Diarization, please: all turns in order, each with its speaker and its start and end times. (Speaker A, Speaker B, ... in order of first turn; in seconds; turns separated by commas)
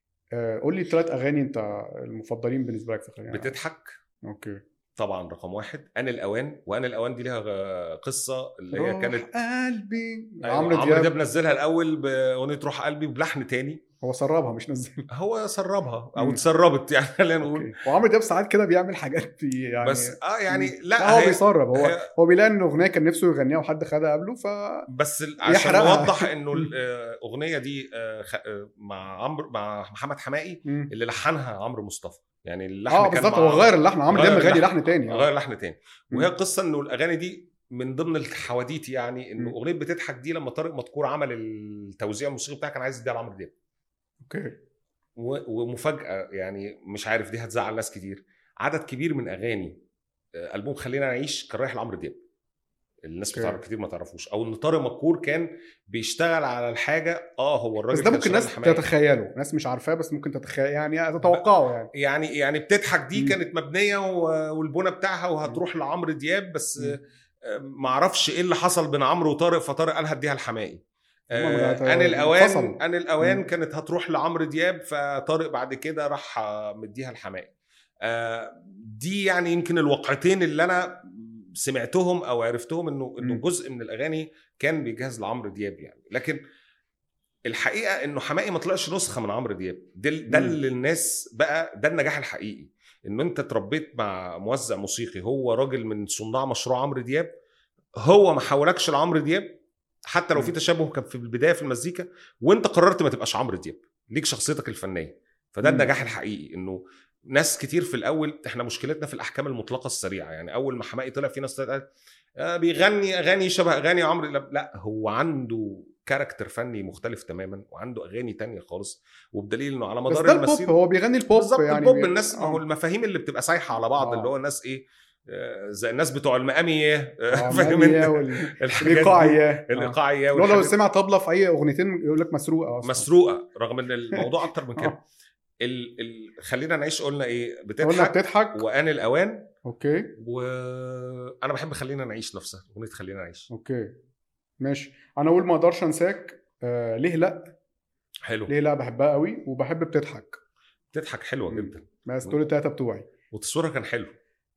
Speaker A: 0.3-3.5, Speaker B: 3.3-3.9, Speaker A: 4.2-4.6, Speaker B: 5.0-9.2, Speaker A: 8.7-11.1, Speaker B: 10.4-13.8, Speaker A: 14.0-15.1, Speaker B: 15.1-17.8, Speaker A: 17.4-24.9, Speaker B: 19.8-22.1, Speaker B: 24.9-43.5, Speaker A: 25.4-26.7, Speaker A: 30.6-30.9, Speaker A: 32.9-35.3, Speaker A: 44.2-44.5, Speaker B: 45.2-49.8, Speaker B: 50.5-52.1, Speaker B: 53.0-58.9, Speaker A: 53.3-53.6, Speaker A: 57.9-61.9, Speaker B: 61.2-86.4, Speaker A: 71.3-73.5, Speaker B: 87.5-97.3, Speaker A: 90.3-90.6, Speaker B: 98.0-99.6, Speaker B: 100.1-106.8, Speaker A: 105.6-106.0, Speaker B: 107.3-111.9, Speaker B: 112.4-120.7, Speaker A: 120.1-122.6, Speaker B: 121.3-130.7, Speaker A: 124.0-124.3, Speaker A: 127.3-133.1, Speaker B: 132.8-135.0, Speaker B: 135.6-139.5, Speaker A: 137.8-138.6, Speaker A: 139.6-140.1, Speaker B: 140.2-143.5, Speaker A: 143.5-143.9, Speaker A: 144.6-147.5, Speaker B: 148.2-148.5, Speaker A: 148.5-150.3, Speaker B: 150.9-152.4, Speaker A: 151.5-153.1, Speaker B: 153.3-154.1